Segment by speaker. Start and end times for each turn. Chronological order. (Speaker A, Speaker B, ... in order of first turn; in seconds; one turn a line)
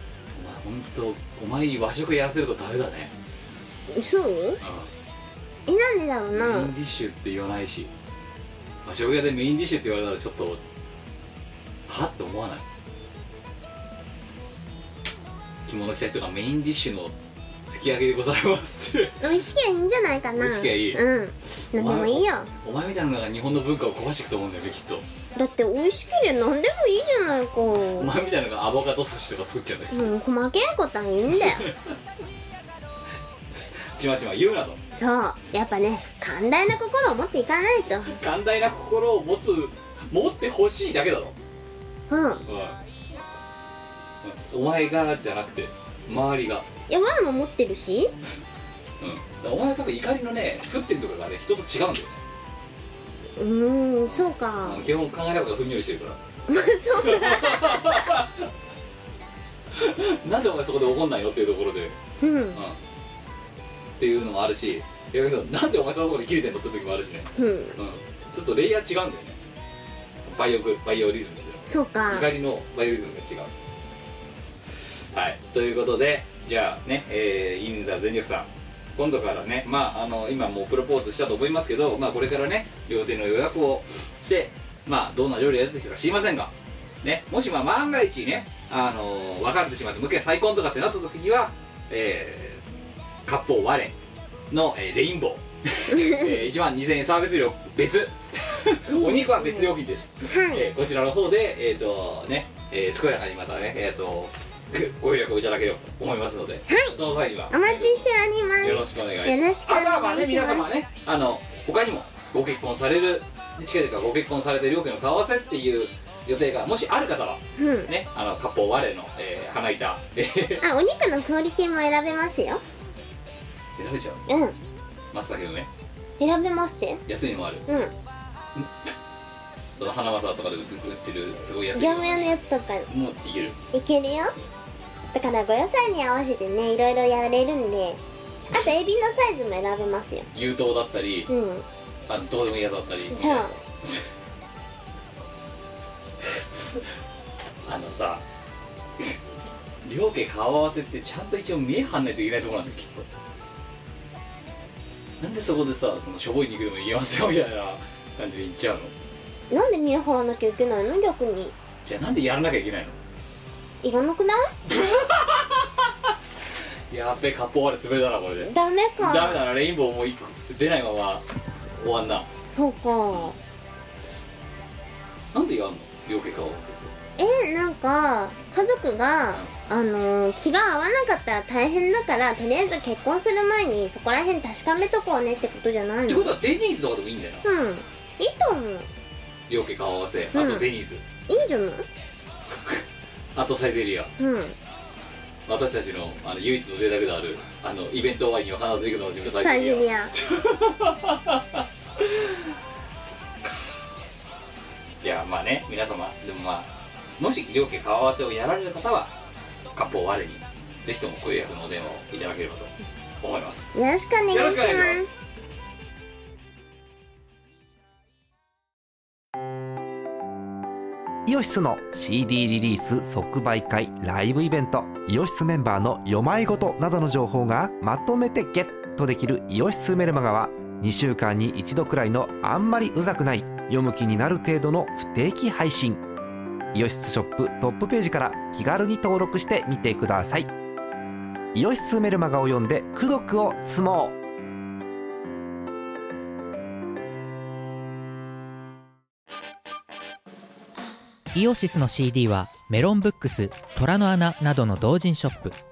Speaker A: 0.3-3.1
Speaker B: 3.9-4.6
Speaker A: 4.6-4.9
Speaker B: 5.7-6.7
Speaker A: 6.3-7.9
Speaker A: 8.8-10.6
Speaker A: 11.9-12.6
Speaker A: 15.7-17.1
Speaker A: 17.6-19.2
Speaker B: 19.2-22.5
Speaker A: 20.4-21.0
Speaker A: 21.6-25.1
Speaker B: 25.4-28.1
Speaker A: 27.9-30.1
Speaker B: 29.9-31.7
Speaker A: 31.3-32.0
Speaker A: 33.9-34.8
Speaker B: 34.9-38.1
Speaker A: 38.0-41.4
Speaker B: 42.1-42.4
Speaker A: 42.5-42.8
Speaker A: 44.2-46.6
Speaker B: 46.9-48.1
Speaker A: 49.0-52.2
Speaker B: 53.4-54.8
Speaker A: 54.0-56.2
Speaker B: 56.5-58.1
Speaker A: 57.0-58.5
Speaker A: 59.7-62.0
Speaker B: 62.2-62.6
Speaker A: 64.0-69.4
Speaker B: 67.3-67.8
Speaker A: 70.2-73.5
Speaker B: 71.7-72.3
Speaker A: 75.0-92.6
Speaker A: 93.2-93.9
Speaker A: 94.5-108.1
Speaker B: 95.9-96.4
Speaker B: 98.9-99.7
Speaker B: 100.3-100.7
Speaker B: 106.7-107.0
Speaker B: 107.5-110.7
Speaker A: 108.6-120.6
Speaker B: 117.6-117.9
Speaker B: 120.6-122.6
Speaker A: 123.8-124.2
Speaker B: 124.3-124.6
Speaker A: 125.1-125.7
Speaker B: 126.2-127.0
Speaker A: 127.1-127.6
Speaker B: 127.7-127.9
Speaker A: 128.5-128.9
Speaker A: 129.8-133.6
Speaker B: 131.7-132.9
Speaker B: 133.7-134.3
Speaker B: 135.1-138.0
Speaker B: 138.5-140.3
Speaker A: 140.3-141.3
Speaker B: 141.3-141.6
Speaker A: 142.1-144.1
Speaker B: 143.1-143.5
Speaker A: 147.6-148.2
Speaker A: 149.8-153.1
Speaker A: 155.2-158.9
Speaker B: 159.5-161.5
Speaker A: 161.8-163.0
Speaker B: 163.8-164.5
Speaker A: 164.6-166.1
Speaker A: 166.9-171.2
Speaker B: 168.4-169.4
Speaker A: 171.8-172.3
Speaker B: 172.6-173.4
Speaker A: 175.3-176.9
Speaker B: 177.2-186.3
Speaker A: 186.1-187.4
Speaker B: 187.4-188.9
Speaker A: 189.5-191.0
Speaker B: 190.3-190.7
Speaker B: 191.3-191.8
Speaker A: 192.5-192.8
Speaker A: 193.3-194.1
Speaker B: 194.2-194.6
Speaker A: 195.4-202.5
Speaker B: 199.2-200.1
Speaker A: 203.4-203.8
Speaker A: 205.0-209.1
Speaker A: 209.7-213.7
Speaker B: 213.7-215.1
Speaker A: 214.3-215.1
Speaker C: 221.2-236.0
Speaker C: 236.7-240.5
Speaker C: 241.5-244.2
Speaker D: 251.3-255.6